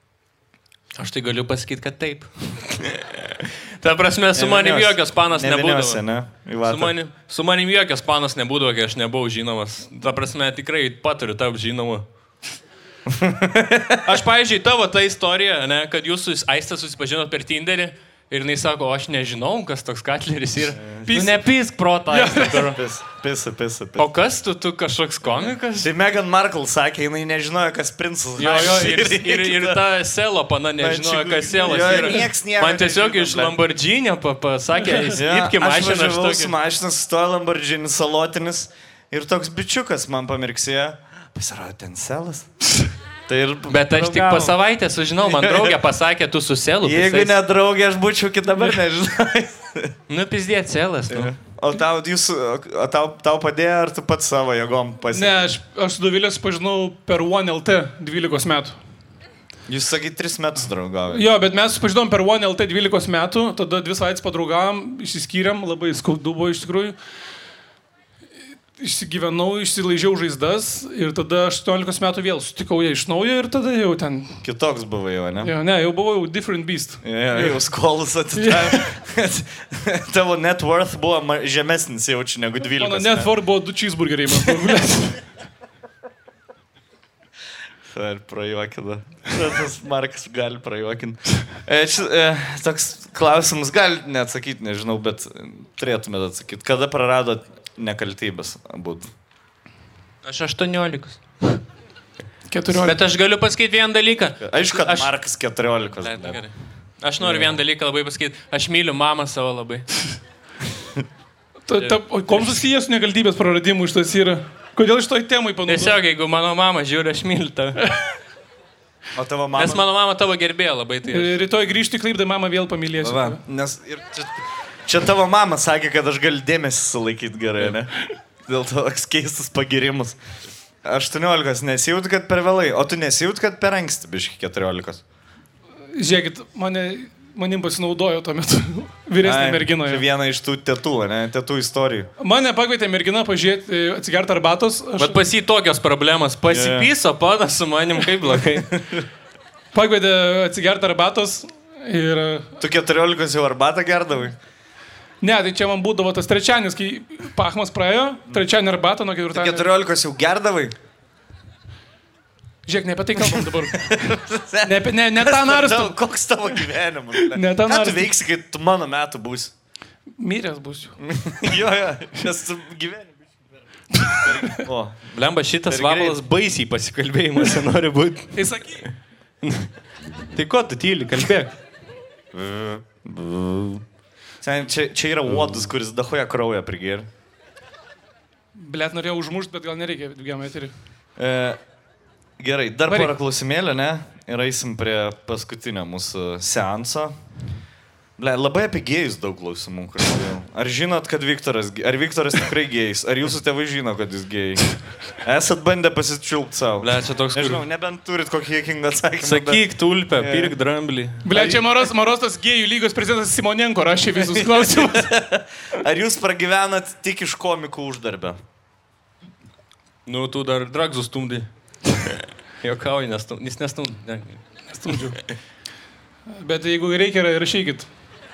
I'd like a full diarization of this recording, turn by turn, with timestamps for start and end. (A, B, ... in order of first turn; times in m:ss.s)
0:00.9-0:06.0 A
0:04.3-0:06.9 B
0:06.6-0:12.0 A
0:13.1-0:14.1 B
0:14.0-0:22.8 A
0:20.7-0:21.2 B
0:21.1-0:21.4 C
0:22.1-0:22.6 C
0:22.6-0:24.1 B
0:24.0-0:25.9 A
0:25.2-0:29.8 B
0:28.4-0:36.5 A
0:30.8-0:33.6 B
0:31.6-0:32.1 C
0:35.2-0:42.5 B
0:43.3-0:44.6 B
0:43.7-0:47.4 A
0:45.2-0:45.8 B
0:46.8-0:49.9 B
0:50.1-0:51.3 A
0:51.1-0:55.4 B
0:55.1-0:58.8 C
0:59.7-1:01.2 B
1:01.1-1:07.0 C
1:08.8-1:14.4 C
1:14.4-1:15.5 B
1:15.4-1:17.6 C
1:17.0-1:23.3 B
1:18.3-1:19.0 C
1:22.8-1:25.2 C
1:27.9-1:39.1 B
1:40.2-1:41.6 A
1:42.5-1:43.0 C
1:42.7-1:45.1 A
1:44.4-1:46.4 B
1:46.0-1:50.0 A
1:47.2-1:47.6 B
1:51.7-1:56.0 C
1:51.8-1:52.6 A
1:55.6-1:57.9 A
1:59.1-1:59.8 B
1:59.6-2:01.4 A
2:01.1-2:03.4 C
2:03.0-2:07.9 B
2:08.4-2:10.2 B
2:10.8-2:15.0 B
2:15.9-2:20.0 C
2:19.2-2:22.1 B
2:22.2-2:25.2 C
2:25.0-2:28.8 A
2:26.5-2:26.9 B
2:28.3-2:29.0 B
2:29.7-2:32.5 C
2:32.6-2:34.4 B
2:35.2-2:39.7 C
2:39.3-2:40.7 B
2:42.7-2:43.9 C
2:43.2-2:49.5 B
2:44.6-2:46.0 C
2:47.2-2:48.1 C
2:50.2-2:51.0 C
2:51.0-2:53.2 B
2:54.0-2:54.3 C
2:54.2-2:55.1 B
2:55.1-2:58.9 A
2:55.7-2:56.2 B
2:58.4-2:58.8 C
2:59.4-2:59.7 A
3:00.3-3:01.5 A
3:02.3-3:03.8 B
3:04.4-3:07.1 B
3:08.5-3:10.7 C
3:11.2-3:11.6 B
3:12.4-3:17.2 B
3:18.2-3:30.6 B
3:26.8-3:27.6 A
3:29.2-3:31.2 A
3:31.2-3:35.1 C
3:31.3-3:31.6 B
3:34.4-3:38.4 B
3:40.0-3:44.6 A
3:44.7-3:45.2 C
3:46.3-3:47.9 C